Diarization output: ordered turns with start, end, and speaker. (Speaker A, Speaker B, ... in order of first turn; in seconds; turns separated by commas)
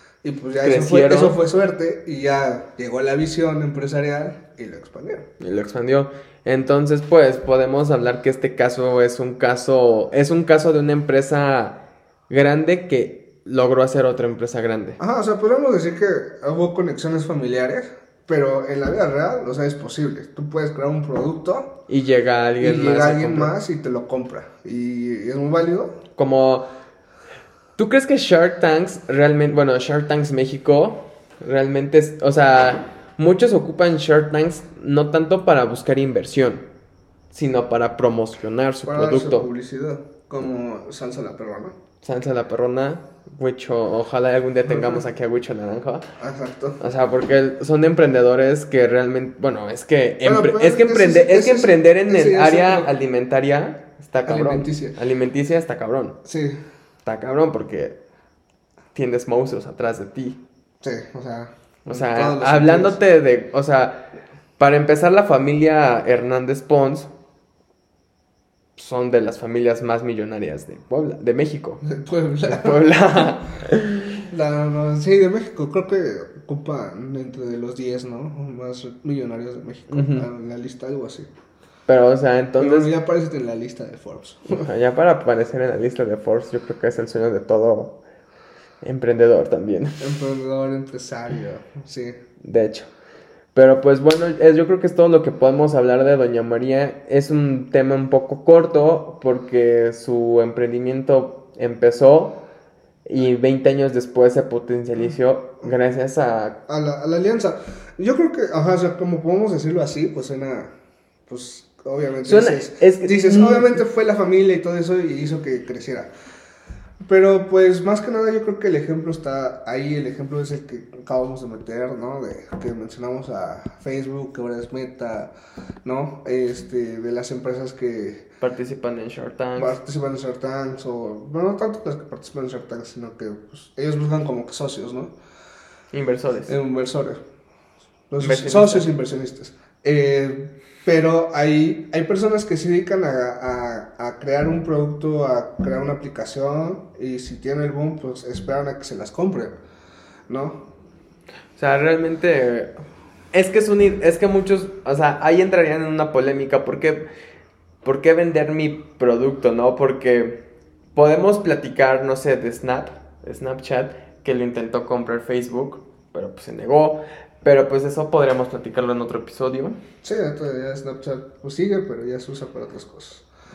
Speaker A: 0.2-5.3, Speaker B: 0.6-1.4, Speaker B: 5.4-15.0, Speaker A: 15.0-21.7, Speaker B: 21.9-23.5, Speaker A: 22.6-25.9, Speaker B: 26.1-26.7, Speaker B: 27.8-36.6, Speaker B: 37.3-39.5, Speaker A: 38.8-41.7, Speaker B: 42.0-46.1, Speaker A: 44.7-45.0, Speaker A: 46.2-46.8, Speaker B: 46.8-56.2, Speaker A: 50.2-52.9, Speaker A: 54.2-55.0, Speaker A: 56.2-56.6, Speaker B: 57.0-58.0, Speaker B: 58.9-60.4, Speaker A: 60.8-63.0, Speaker B: 61.9-67.1, Speaker B: 68.8-71.8, Speaker A: 71.8-73.4, Speaker B: 72.4-74.3, Speaker A: 74.3-81.3, Speaker B: 79.9-80.3, Speaker B: 81.9-82.9, Speaker A: 82.6-84.7, Speaker B: 84.5-88.0, Speaker B: 88.8-90.0, Speaker A: 90.0-92.2, Speaker B: 92.4-92.9, Speaker B: 93.5-102.4, Speaker B: 103.0-106.6, Speaker A: 106.7-110.7, Speaker A: 111.3-116.1, Speaker B: 112.2-113.8, Speaker A: 117.0-125.3, Speaker A: 125.8-128.3, Speaker B: 128.4-129.8, Speaker A: 129.6-135.1, Speaker B: 135.9-136.5, Speaker A: 136.5-137.2, Speaker A: 138.1-149.6, Speaker B: 138.2-138.9, Speaker A: 150.3-150.6, Speaker B: 151.6-152.7, Speaker B: 153.3-157.1, Speaker B: 157.8-160.4, Speaker B: 160.9-169.8, Speaker A: 170.0-173.2